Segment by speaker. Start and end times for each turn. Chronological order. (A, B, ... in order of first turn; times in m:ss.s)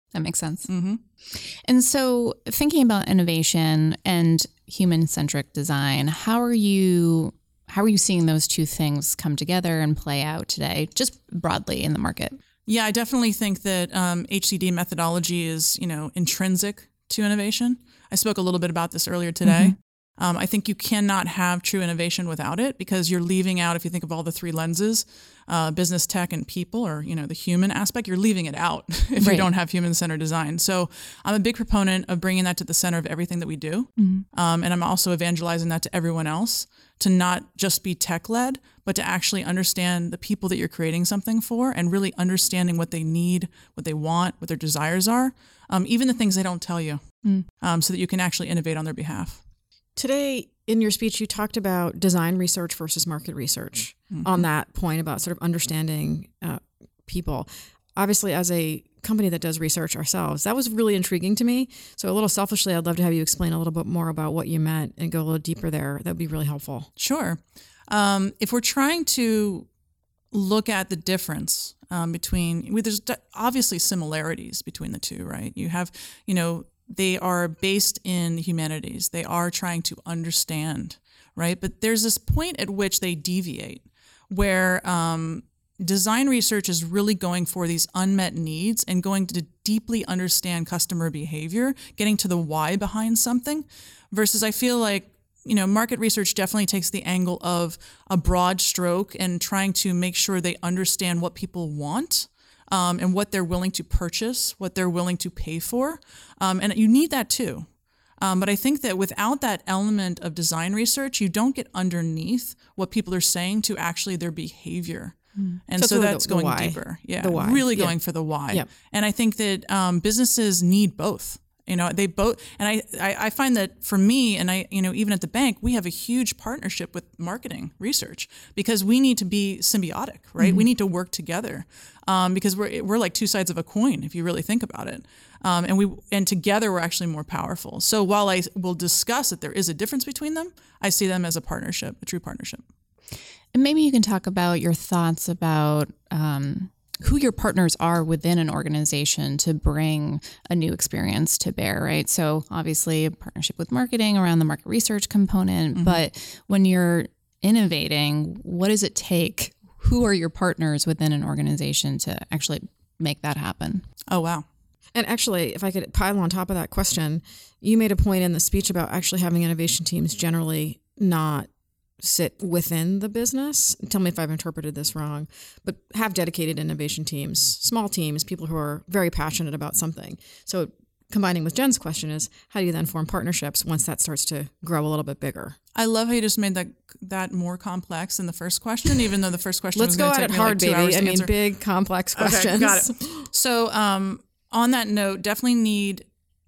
0:00.1-0:00.7 A
0:00.7-0:01.0 B
0:01.3-0:12.4 A
0:12.7-0:49.4 B
0:19.4-0:19.7 A
0:29.2-0:29.5 A
0:34.0-0:34.2 A
0:50.0-1:06.9 C
0:54.1-0:54.4 B
1:07.0-1:09.7 B
1:10.3-1:47.7 B
1:48.2-2:22.6 B
1:55.8-1:58.0 C
2:10.4-2:10.6 A
2:23.5-2:43.8 A
2:35.7-2:36.0 B
2:44.1-2:44.4 B
2:44.9-2:51.5 C
2:52.0-3:05.6 C
3:05.7-3:11.3 B
3:09.8-3:13.3 C
3:12.2-3:16.0 B